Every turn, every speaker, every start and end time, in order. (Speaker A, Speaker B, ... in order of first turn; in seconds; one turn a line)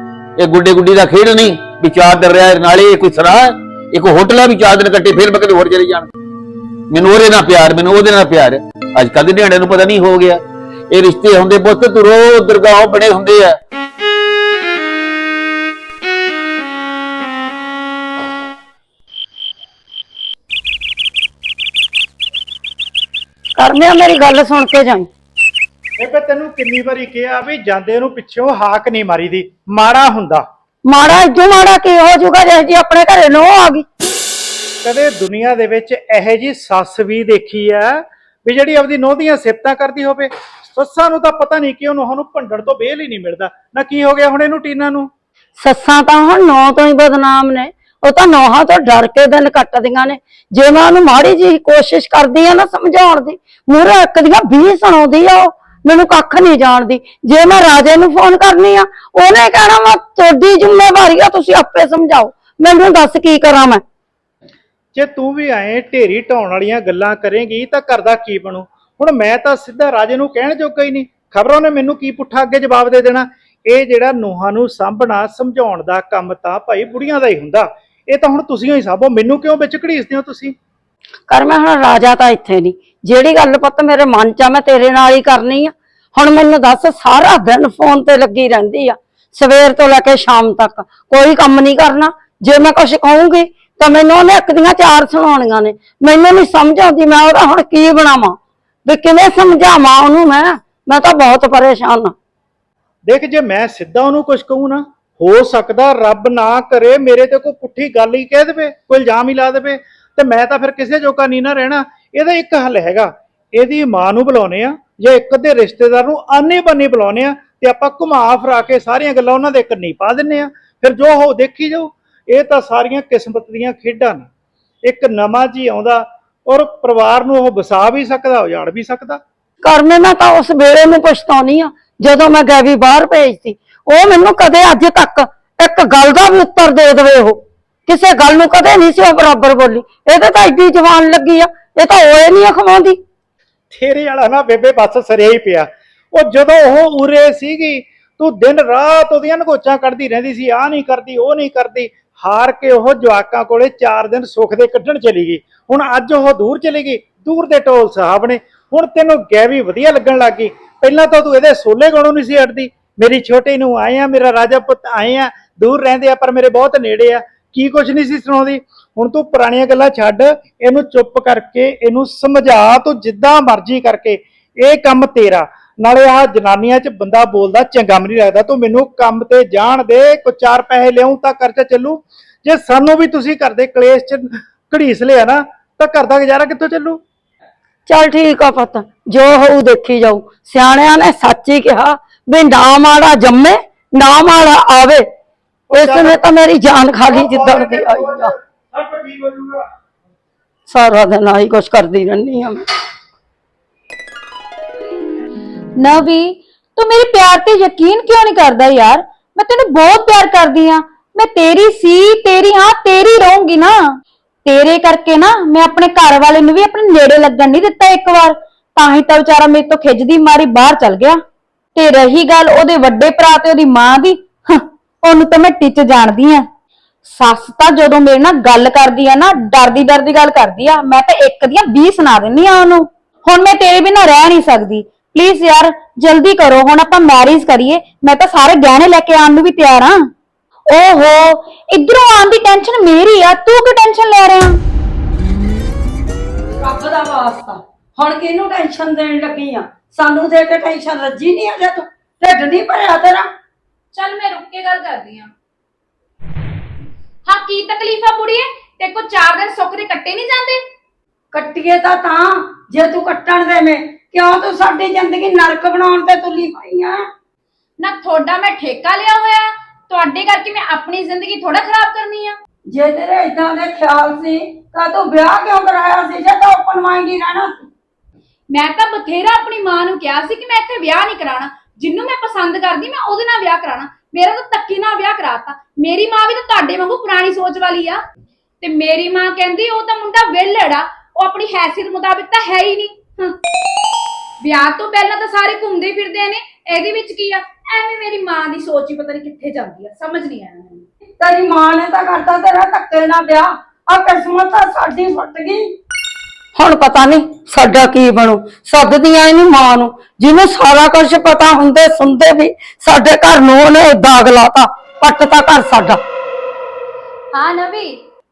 Speaker A: 0.4-6.1
Speaker A: 6.9-13.6
Speaker B: 23.6-25.1
Speaker C: 26.0-30.4
Speaker B: 30.9-33.9
Speaker C: 34.8-45.1
Speaker B: 45.6-63.8
Speaker C: 64.9-80.5
Speaker B: 81.3-102.1
Speaker C: 103.1-124.3
Speaker C: 124.8-129.2
Speaker B: 129.6-143.0
Speaker C: 143.7-187.0
Speaker B: 187.9-195.1
Speaker C: 195.7-196.2
Speaker B: 195.7-198.3
Speaker C: 197.1-199.7
Speaker B: 200.7-202.7
Speaker D: 205.8-213.8
Speaker D: 214.5-221.2
Speaker D: 221.8-226.4
Speaker D: 227.1-240.0
Speaker D: 240.7-244.6
Speaker B: 246.6-253.3
Speaker E: 253.9-255.3
Speaker E: 257.3-260.6
Speaker B: 261.3-267.1
Speaker E: 267.8-272.4
Speaker B: 272.7-277.5
Speaker E: 278.5-288.0
Speaker E: 288.6-293.4
Speaker E: 294.4-300.8
Speaker B: 301.2-305.7
Speaker B: 306.6-316.0
Speaker E: 317.3-318.0